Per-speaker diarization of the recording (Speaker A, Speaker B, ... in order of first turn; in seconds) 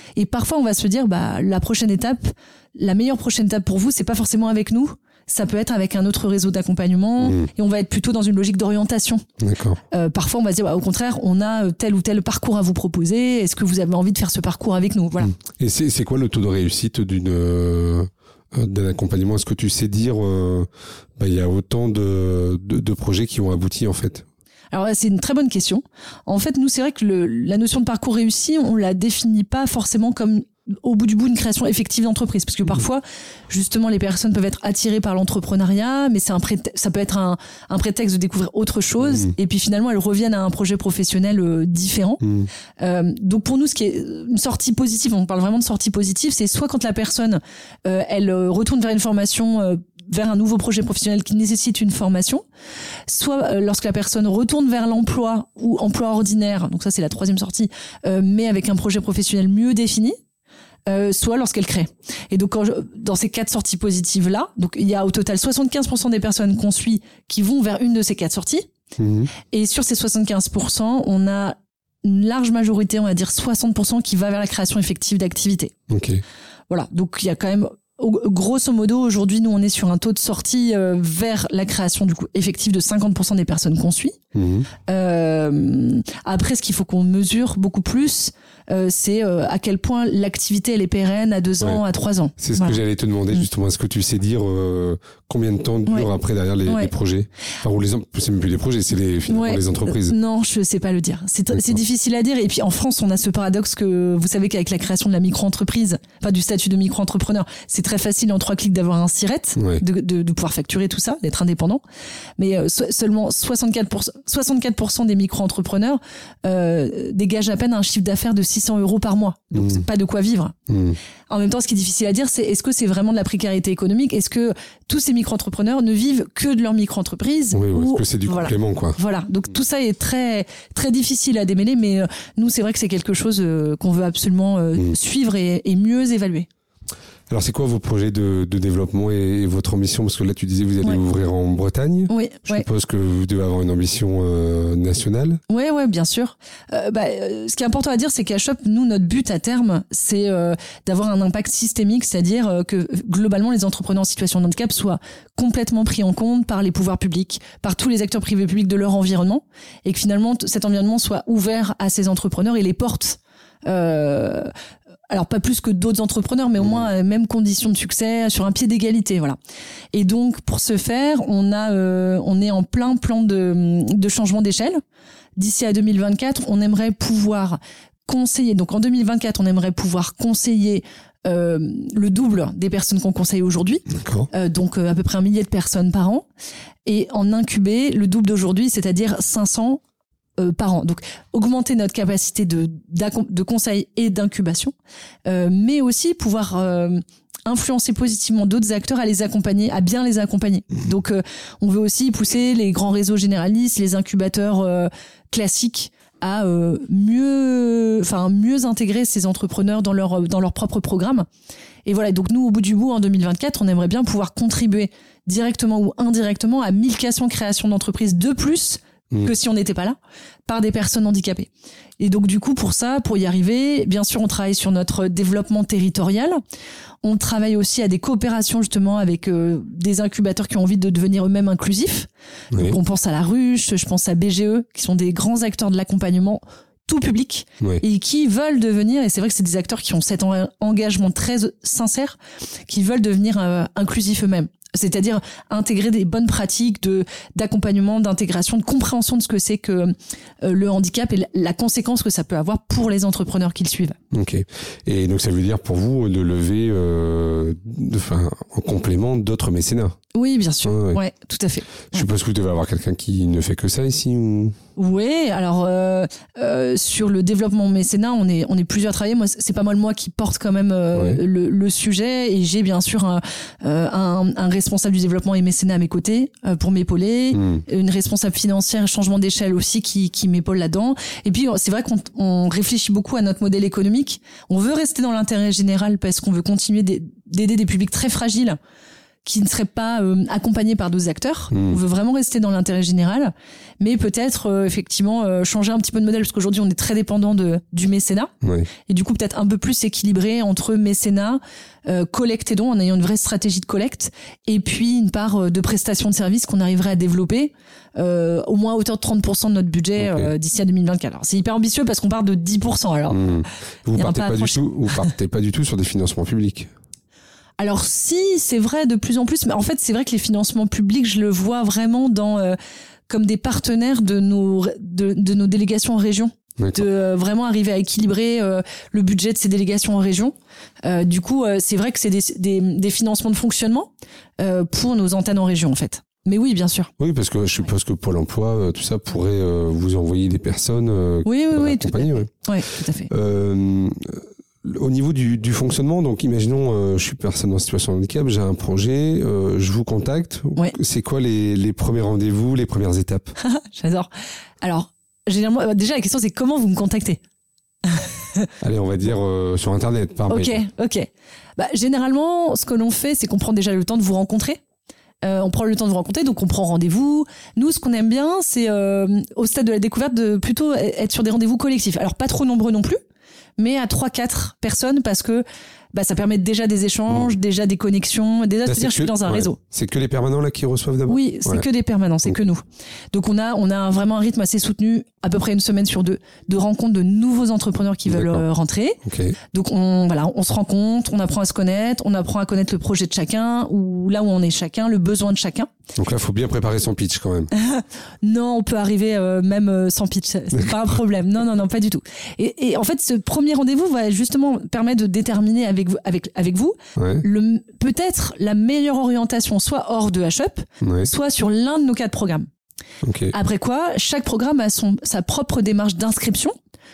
Speaker A: 0.2-9.2, 9.9-15.3, 24.7-42.2, 42.8-52.4, 53.1-60.1, 60.9-68.7, 69.5-75.8, 76.7-84.2, 84.8-92.8, 96.7-96.9, 99.3-111.8, 112.4-120.5, 121.3-136.5, 142.1-142.7, 145.5-164.5, 165.1-169.4, 169.9-174.8, 175.4-186.2, 186.8-189.8, 190.4-194.7, 195.2-211.3, 211.8-226.4, 227.0-254.0, 260.1-262.1, 264.8-288.6, 289.2-298.3, 298.9-313.3, 313.9-315.1, 317.6-322.6, 323.1-336.9, 341.2-343.1, 353.4-354.1, 354.6-357.2, 357.8-358.5, 360.3-364.6, 365.2-373.0, 373.6-379.6, 381.1-389.0, 389.5-395.7, 397.5-412.5, 413.3-416.5
Speaker B: 7.2-7.5, 9.4-9.8, 15.2-24.3, 39.0-39.3, 42.2-42.5, 69.0-69.3, 75.9-76.2, 84.3-84.7, 92.4-100.2, 109.6-109.8, 119.6-119.8, 120.7-121.0, 127.5-129.0, 137.3-145.4, 166.6-166.9, 183.9-184.3, 232.5-232.8, 254.1-260.0, 260.6-261.0, 261.9-264.6, 270.9-271.2, 277.3-277.6, 291.5-291.8, 298.4-298.7, 310.0-310.3, 313.1-316.7, 326.6-326.9, 337.0-342.3, 343.1-353.4, 358.6-360.6, 378.6-381.6, 388.1-388.4, 389.0-389.4, 395.9-397.5, 407.0-407.2, 410.8-411.1, 413.0-413.3